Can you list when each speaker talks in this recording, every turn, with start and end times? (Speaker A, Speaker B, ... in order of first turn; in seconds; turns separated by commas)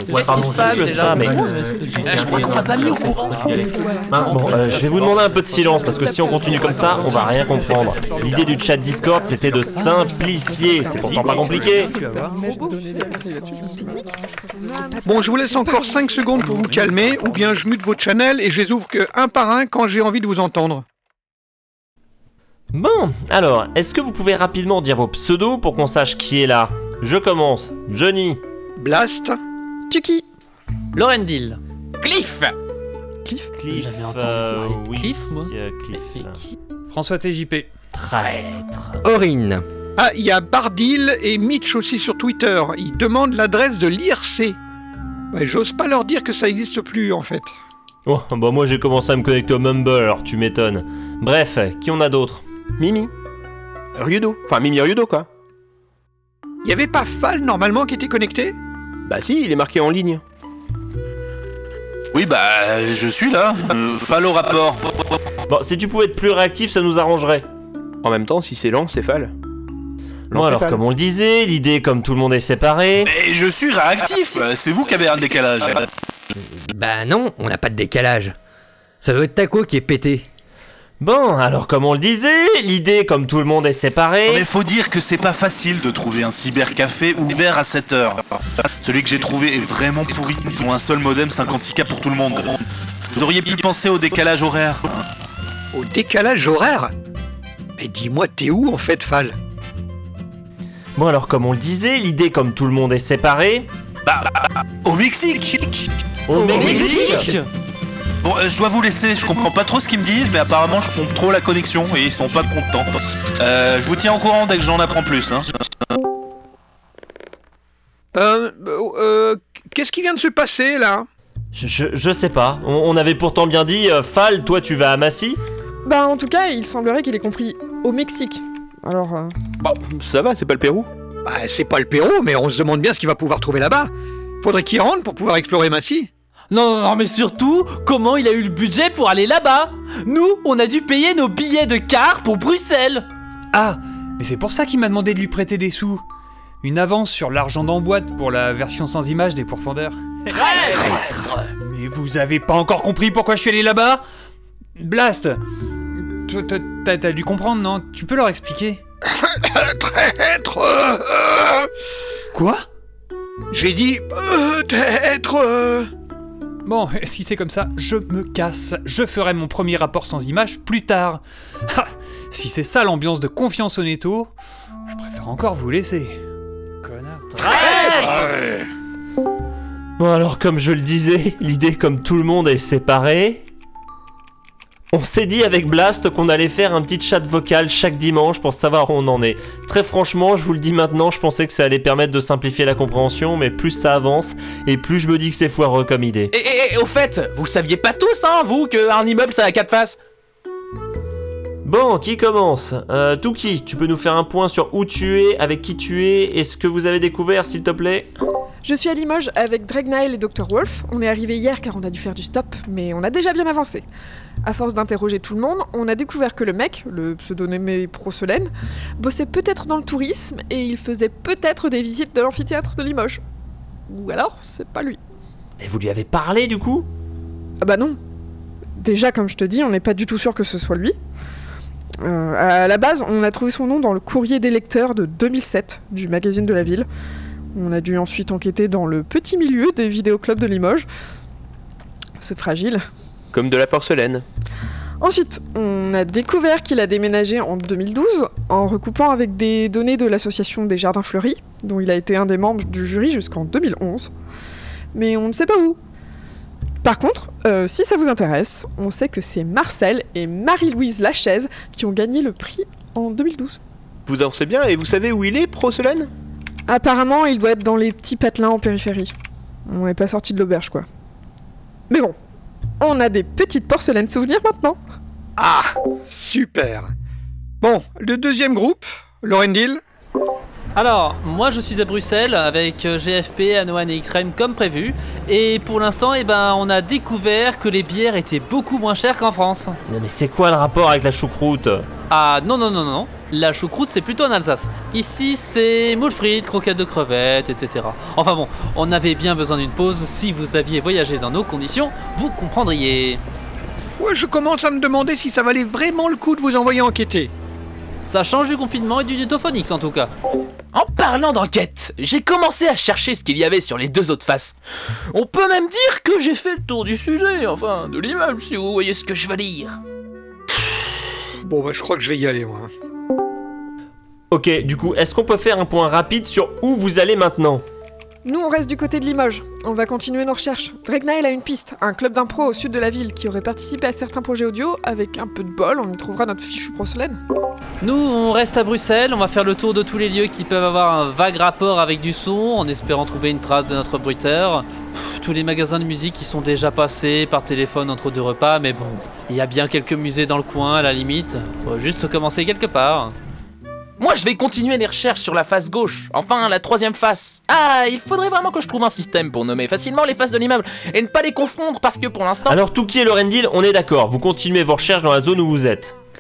Speaker A: 0.2-0.8, Speaker B: 0.5-1.4, Speaker A: 2.0-3.5, Speaker C: 3.8-4.1, Speaker B: 4.2-11.9, Speaker D: 6.6-8.1, Speaker D: 11.1-12.3, Speaker C: 12.4-14.1, Speaker C: 14.7-15.0, Speaker E: 15.0-20.8, Speaker B: 22.7-28.4, Speaker E: 28.8-29.4, Speaker C: 29.9-30.2, Speaker F: 30.9-31.6, Speaker A: 32.0-32.5, Speaker B: 33.5-36.4, Speaker F: 33.7-35.5, Speaker D: 36.9-37.7, Speaker B: 37.9-39.0, Speaker G: 39.1-39.6, Speaker E: 40.0-44.6, Speaker E: 45.3-47.5, Speaker B: 48.0-52.4, Speaker H: 52.8-53.1, Speaker H: 54.0-55.2, Speaker E: 56.6-58.5, Speaker H: 59.0-60.2, Speaker I: 62.1-64.8, Speaker B: 65.5-67.5, Speaker H: 68.0-69.3, Speaker H: 70.3-70.8, Speaker B: 70.3-73.1, Speaker I: 73.0-75.9, Speaker G: 76.5-78.3, Speaker G: 79.0-80.2, Speaker B: 81.0-84.5, Speaker I: 84.2-88.2, Speaker I: 88.8-92.6, Speaker I: 93.1-94.8, Speaker E: 95.7-96.9, Speaker E: 97.8-99.3, Speaker B: 101.0-103.7, Speaker I: 104.0-105.8, Speaker B: 106.3-107.3, Speaker E: 106.3-107.2, Speaker C: 106.7-107.0, Speaker I: 106.8-107.3, Speaker I: 108.2-115.5, Speaker E: 118.1-121.1, Speaker B: 121.5-125.4, Speaker C: 125.8-129.3, Speaker H: 129.6-130.9, Speaker E: 131.2-133.9, Speaker E: 134.4-136.1, Speaker F: 136.5-143.1, Speaker D: 143.5-146.0, Speaker D: 146.6-150.7, Speaker D: 151.6-154.0, Speaker D: 154.8-155.4, Speaker D: 156.2-158.8, Speaker E: 159.3-161.7, Speaker D: 162.3-162.6, Speaker E: 163.5-165.9, Speaker D: 166.6-174.3, Speaker D: 174.9-176.2, Speaker D: 176.8-178.0, Speaker B: 177.6-178.1, Speaker B: 180.0-183.4, Speaker B: 184.9-196.3, Speaker A: 196.3-200.0, Speaker B: 201.6-208.1, Speaker C: 208.6-213.8, Speaker C: 214.4-223.2, Speaker C: 223.9-225.0, Speaker B: 225.6-226.9, Speaker C: 227.6-228.0, Speaker C: 228.8-230.9, Speaker C: 232.0-236.8, Speaker C: 237.5-240.8, Speaker C: 242.2-242.8, Speaker H: 243.3-244.2, Speaker C: 245.0-254.1, Speaker C: 254.9-255.8, Speaker C: 256.8-263.6, Speaker H: 264.1-266.1, Speaker C: 266.7-269.1, Speaker C: 269.7-270.9, Speaker C: 272.8-274.8, Speaker E: 275.4-276.9, Speaker E: 277.6-279.8, Speaker F: 280.7-289.8, Speaker B: 289.9-291.9, Speaker F: 292.1-303.2, Speaker E: 304.0-307.3, Speaker F: 308.1-310.1, Speaker A: 310.7-314.6, Speaker A: 315.1-319.8, Speaker E: 321.4-322.7, Speaker B: 324.3-327.6, Speaker C: 328.2-337.2, Speaker F: 337.8-353.1, Speaker A: 354.0-362.6, Speaker B: 362.4-365.9